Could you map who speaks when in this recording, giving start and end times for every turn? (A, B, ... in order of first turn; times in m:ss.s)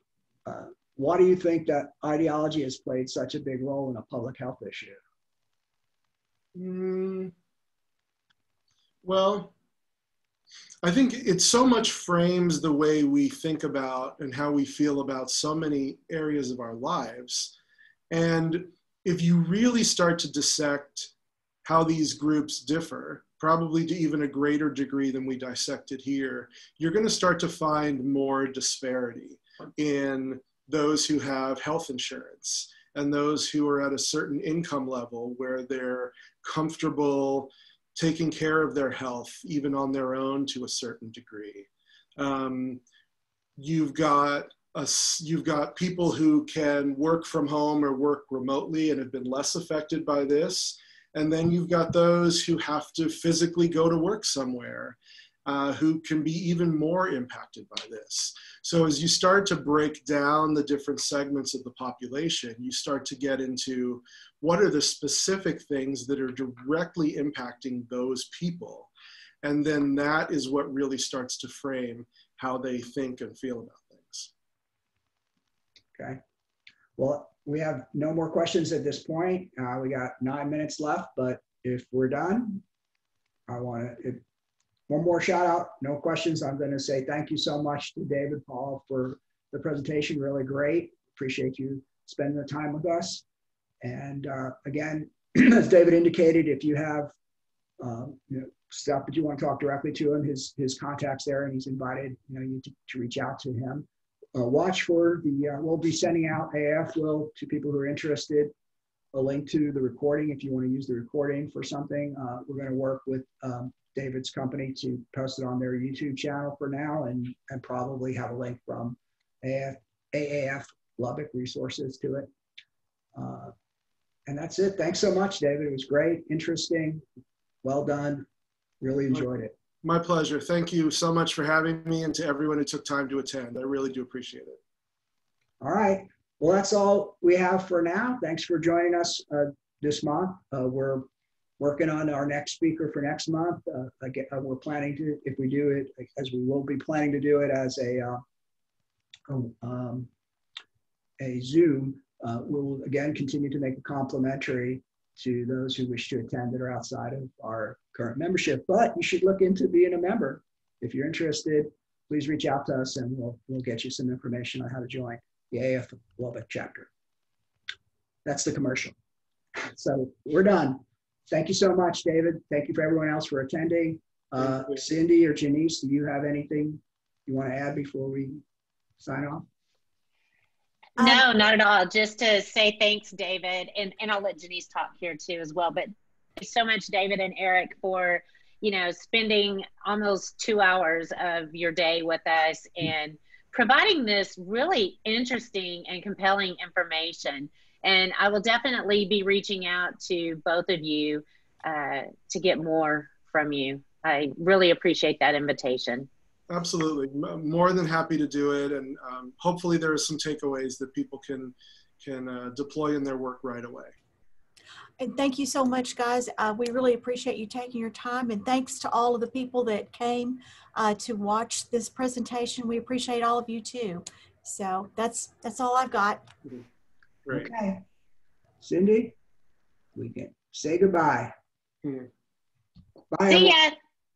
0:00.4-0:05.0 A
0:06.6-0:07.3 B
0:09.0-0:09.5 B
0:10.8-0:17.5 B
0:18.1-0:21.1 B
0:21.6-0:42.8 B
0:43.6-1:08.9 B
1:09.4-1:14.3 B
1:17.0-1:22.6 A
1:23.5-1:24.2 A
1:24.9-1:33.2 A
1:33.8-1:37.1 A
1:37.8-1:48.5 A
1:49.1-2:02.3 A
2:03.2-2:03.5 A
2:04.3-2:07.0 A
2:07.6-2:08.3 A
2:08.8-2:09.5 A
2:09.8-2:14.6 B
2:15.6-2:21.1 A
2:21.6-2:28.2 A
2:29.3-2:30.1 A
2:31.2-2:46.9 A
2:48.2-2:48.9 A
2:49.6-2:58.4 A
2:54.4-2:54.8 B
2:59.0-2:59.5 A
3:01.0-3:26.1 C
3:01.0-3:01.2 D
3:26.5-3:33.9 B
3:35.0-3:46.2 D
3:47.3-3:47.5 B
3:47.3-3:47.8 A
3:48.6-3:49.2 A
3:50.0-3:51.3 A
3:51.8-3:52.1 B
3:53.1-3:53.5 A
3:53.3-3:53.8 C